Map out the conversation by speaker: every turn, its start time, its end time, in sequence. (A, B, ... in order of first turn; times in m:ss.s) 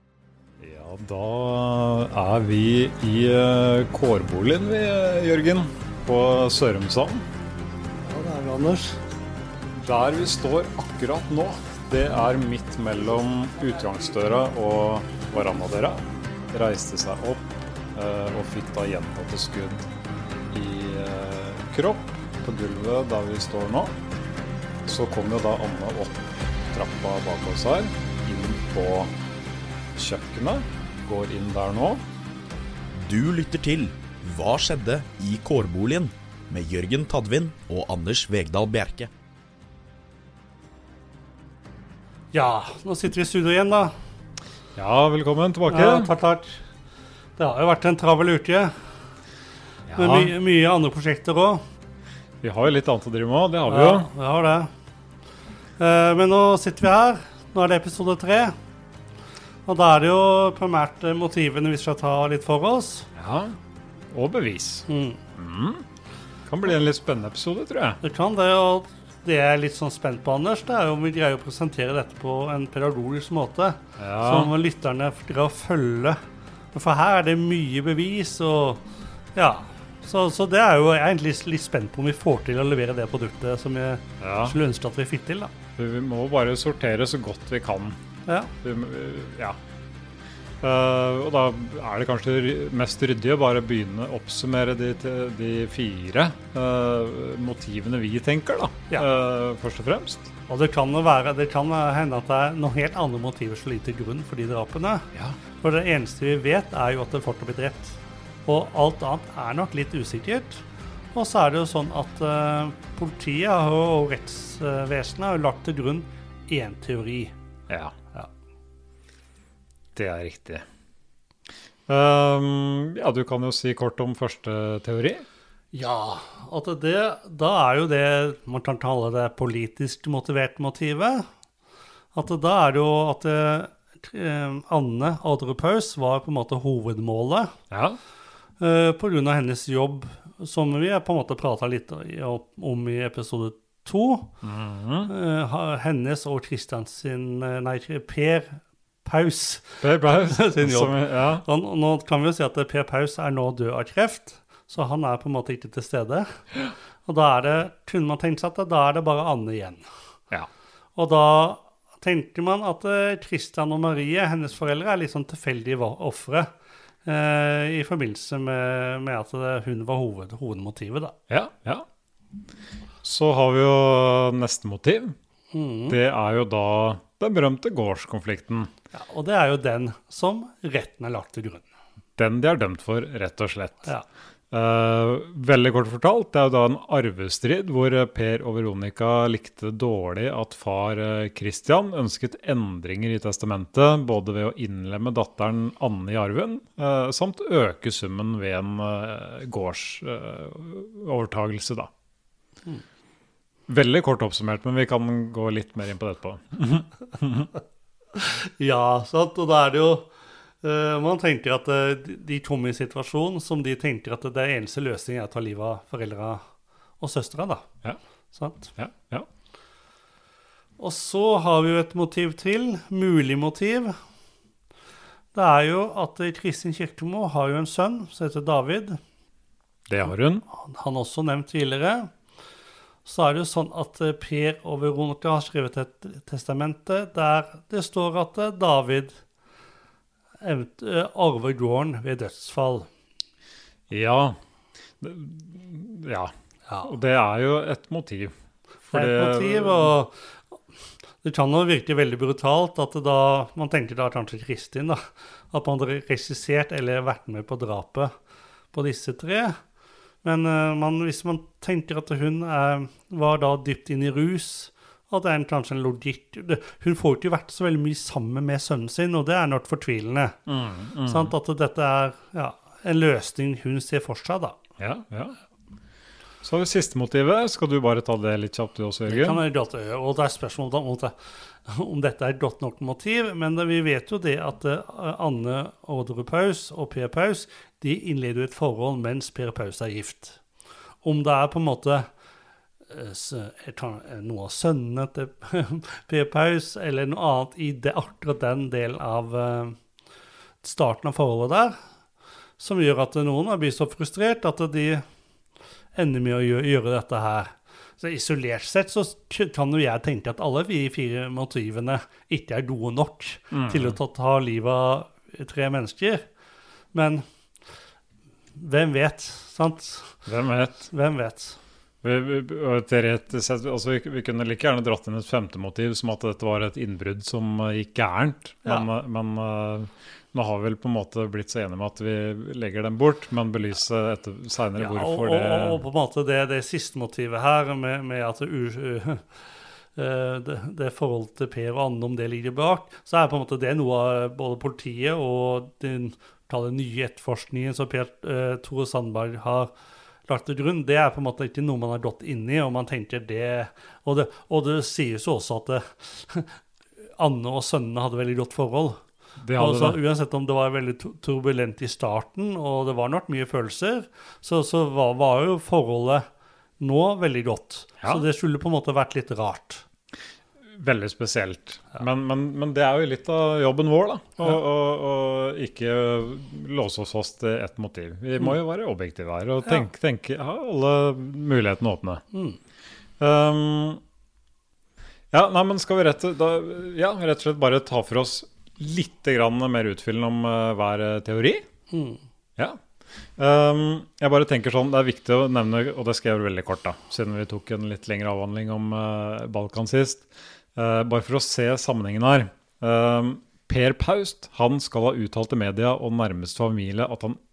0:00.6-0:07.2 A
0:08.0-0:09.0 B
0:09.8-0:19.9 A
0:20.5-0:23.9 A
0:24.8-0:29.1 A
0:29.9-0:32.0 A
0:32.9-0:39.1 C
0:42.3-0:43.9 B
0:44.8-0:46.1 A
0:45.7-0:46.6 B
0:47.4-0:48.8 B
0:49.9-0:50.3 A
0:50.0-0:51.6 B
0:52.4-0:54.1 A
0:53.7-0:54.7 B
0:55.8-0:58.6 B
0:59.6-1:03.1 B
1:03.1-1:03.6 A
1:04.1-1:05.8 A
1:04.9-1:05.2 B
1:06.5-1:08.0 A
1:08.0-1:16.2 B
1:14.0-1:14.5 A
1:16.7-1:25.5 B
1:24.2-1:24.6 A
1:25.8-1:28.0 A
1:28.2-1:28.5 B
1:28.6-1:29.6 A
1:30.6-1:40.3 A
1:40.5-1:57.3 B
1:57.7-1:57.9 A
1:59.9-2:00.6 A
2:01.9-2:05.2 A
2:05.7-2:11.3 B
2:12.1-2:17.6 B
2:17.7-2:18.0 A
2:18.6-2:24.4 B
2:24.4-2:25.1 A
2:25.1-2:36.4 B
2:29.8-2:31.4 A
2:37.0-2:39.9 B
2:40.9-2:46.5 B
2:47.0-2:51.2 B
2:51.3-2:51.8 A
2:53.0-2:55.1 A
2:55.5-2:56.0 B
2:55.9-2:58.7 A
2:58.9-3:01.6 B
3:02.2-3:03.9 A
3:04.5-3:21.9 A
3:23.7-3:27.5 A
3:28.1-3:36.5 B
3:37.0-3:37.7 B
3:38.3-3:38.7 B
3:38.8-3:39.3 A
3:40.8-3:44.0 B
3:45.3-3:49.0 B
3:49.9-3:50.4 A
3:50.5-3:52.2 B
3:53.0-3:59.2 B
4:00.4-4:02.9 B
4:03.9-4:04.4 A
4:05.0-4:06.3 A
4:06.7-4:06.9 B
4:06.8-4:09.9 A
4:08.9-4:10.4 B
4:11.2-4:18.1 B
4:18.7-4:19.6 B
4:20.2-4:30.4 B
4:30.4-4:31.3 A
4:31.0-4:34.6 B
4:34.8-4:35.3 A
4:36.4-4:39.4 A
4:39.1-4:50.4 B
4:51.0-4:52.1 B
4:52.9-4:59.8 B
5:00.6-5:01.8 B
5:02.6-5:05.0 B
5:05.9-5:16.3 B
5:13.5-5:14.0 A
5:16.9-5:17.2 B
5:18.6-5:20.2 B
5:20.2-5:20.8 A
5:20.8-5:21.6 B
5:22.0-5:35.8 A
5:34.8-5:49.7 B
5:50.3-5:56.6 B
5:57.2-5:59.0 B
5:59.4-6:00.0 A
5:59.6-6:06.3 B
6:06.8-6:09.8 B
6:10.7-6:22.2 A
6:22.3-6:22.6 B
6:23.2-6:24.0 A
6:25.3-6:31.6 A
6:31.9-6:32.2 B
6:33.4-6:47.4 A